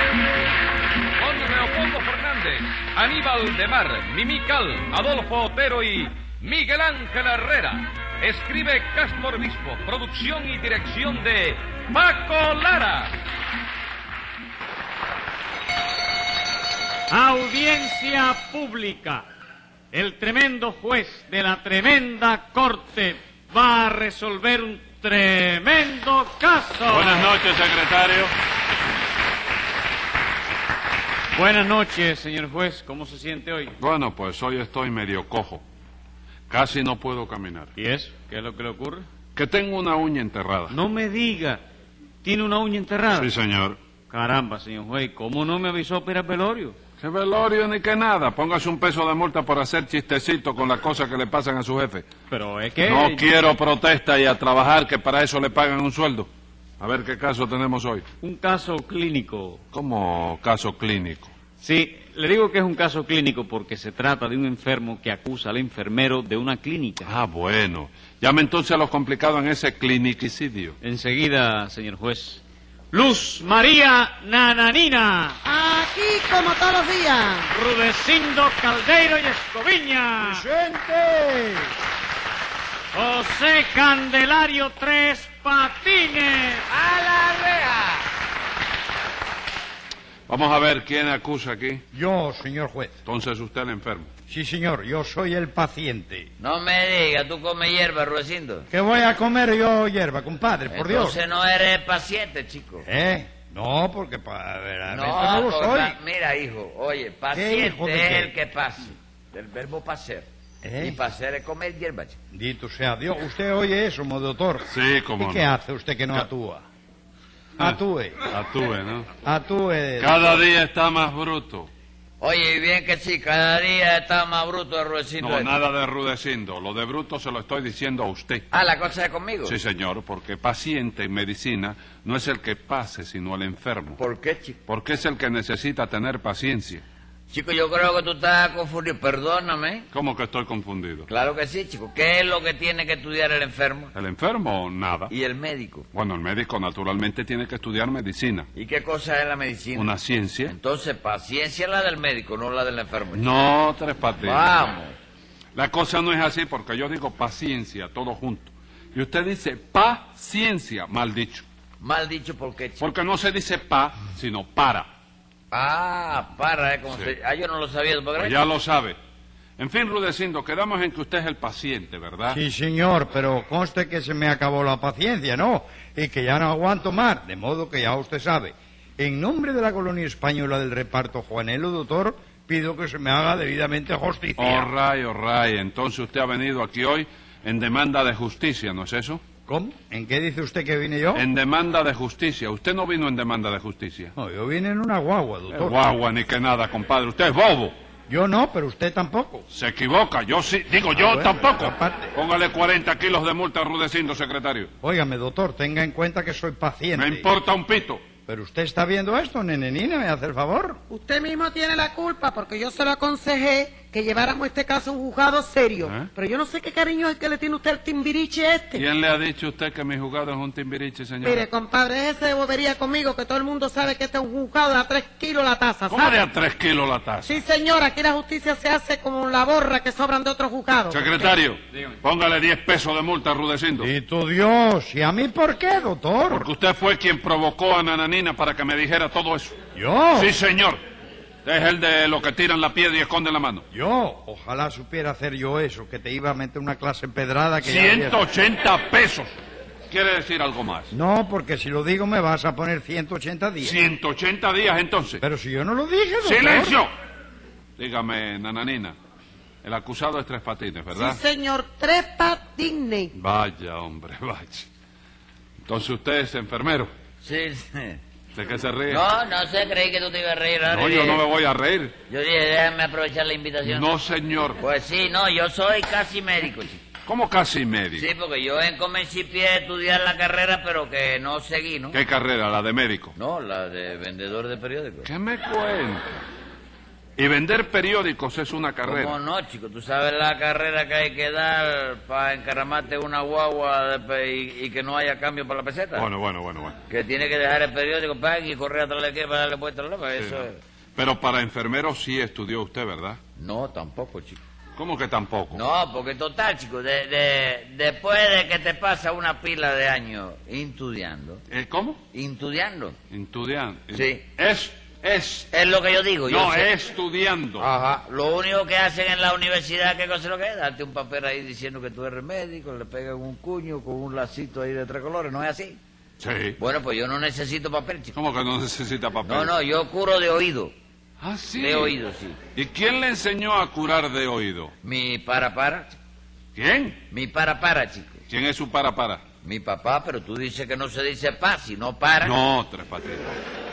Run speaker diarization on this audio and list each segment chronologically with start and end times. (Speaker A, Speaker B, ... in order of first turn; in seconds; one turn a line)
Speaker A: 1.2-13.2
Speaker B: 17.1-19.3
Speaker B: 19.9-27.3
Speaker C: 26.9-28.3
Speaker B: 31.3-33.8
Speaker C: 33.8-35.6
Speaker C: 36.5-37.7
Speaker B: 37.8-39.1
Speaker C: 39.4-40.8
Speaker B: 40.7-41.6
Speaker B: 42.2-43.3
Speaker C: 43.1-43.8
Speaker B: 44.1-46.8
Speaker C: 47.0-52.1
Speaker B: 52.3-53.3
Speaker C: 52.9-58.1
Speaker B: 58.2-59.6
Speaker C: 59.7-61.3
Speaker B: 61.6-67.1
Speaker C: 67.0-70.8
Speaker B: 70.8-75.4
Speaker D: 75.5-77.5
Speaker B: 77.5-80.5
Speaker E: 80.2-81.7
Speaker B: 82.9-86.6
Speaker F: 86.7-88.1
Speaker C: 90.3-91.8
Speaker E: 91.9-92.9
Speaker C: 93.0-94.1
Speaker E: 94.3-96.3
Speaker F: 96.4-98.7
Speaker E: 98.7-101.2
Speaker F: 100.7-102.9
Speaker E: 102.8-106.0
Speaker F: 104.9-110.3
Speaker E: 107.3-108.3
Speaker E: 110.6-111.0
Speaker F: 110.8-112.2
Speaker E: 112.3-114.7
Speaker C: 114.7-115.5
Speaker E: 115.2-116.6
Speaker C: 117.6-119.1
Speaker E: 117.6-118.2
Speaker E: 119.2-120.4
Speaker C: 120.0-121.7
Speaker F: 122.2-125.5
Speaker C: 125.2-128.5
Speaker F: 128.5-129.6
Speaker C: 129.5-134.0
Speaker F: 134.0-134.6
Speaker C: 134.7-136.8
Speaker F: 137.3-139.9
Speaker C: 139.9-141.1
Speaker F: 141.1-143.9
Speaker C: 143.9-145.1
Speaker F: 145.1-145.9
Speaker C: 145.9-148.5
Speaker F: 148.6-149.9
Speaker C: 149.8-150.5
Speaker F: 150.4-153.2
Speaker C: 153.1-154.6
Speaker F: 154.2-154.9
Speaker C: 155.6-161.4
Speaker F: 161.8-162.9
Speaker C: 162.8-164.9
Speaker F: 165.5-168.4
Speaker C: 166.9-167.1
Speaker C: 168.2-169.0
Speaker C: 169.6-172.4
Speaker E: 172.3-184.7
Speaker C: 184.4-189.2
Speaker E: 189.5-191.2
Speaker C: 191.1-194.1
Speaker E: 194.2-195.8
Speaker C: 195.5-197.8
Speaker E: 198.1-199.5
Speaker C: 199.5-204.7
Speaker E: 200.9-202.1
Speaker E: 204.8-207.3
Speaker C: 207.0-208.1
Speaker E: 208.3-210.8
Speaker D: 210.9-218.8
Speaker C: 215.8-216.1
Speaker C: 218.8-221.5
Speaker D: 221.2-226.2
Speaker C: 225.9-227.4
Speaker D: 227.3-231.2
Speaker C: 230.9-233.9
Speaker E: 233.8-236.5
Speaker C: 236.3-239.6
Speaker E: 239.8-240.3
Speaker C: 240.2-240.8
Speaker C: 241.4-243.6
Speaker E: 243.7-248.2
Speaker C: 247.6-249.4
Speaker C: 249.9-250.9
Speaker E: 250.9-253.8
Speaker C: 253.6-255.2
Speaker E: 255.2-256.8
Speaker C: 256.2-256.9
Speaker C: 257.8-259.0
Speaker C: 259.6-261.2
Speaker D: 260.9-263.1
Speaker C: 263.1-264.7
Speaker C: 265.7-266.9
Speaker F: 267.2-268.0
Speaker C: 268.3-269.0
Speaker F: 268.9-271.2
Speaker C: 270.7-271.9
Speaker F: 272.1-273.9
Speaker C: 273.6-274.6
Speaker F: 274.6-276.8
Speaker C: 277.1-278.1
Speaker F: 277.9-282.0
Speaker C: 281.9-283.1
Speaker F: 283.2-285.1
Speaker C: 285.1-286.2
Speaker C: 287.2-289.2
Speaker F: 288.9-296.1
Speaker C: 295.9-296.8
Speaker F: 296.9-300.6
Speaker C: 300.2-303.2
Speaker F: 303.4-304.4
Speaker C: 304.8-305.6
Speaker F: 305.5-311.4
Speaker C: 311.5-312.0
Speaker F: 312.1-313.0
Speaker C: 313.1-315.5
Speaker F: 313.9-314.3
Speaker F: 315.5-316.7
Speaker C: 316.3-317.7
Speaker F: 317.6-325.8
Speaker C: 326.2-326.6
Speaker F: 326.6-328.1
Speaker C: 328.1-329.5
Speaker F: 329.2-330.7
Speaker C: 331.2-331.9
Speaker F: 331.5-332.4
Speaker C: 332.6-334.7
Speaker F: 334.8-336.0
Speaker C: 336.6-337.0
Speaker F: 337.1-338.2
Speaker C: 338.3-339.2
Speaker F: 339.4-342.4
Speaker C: 342.2-343.4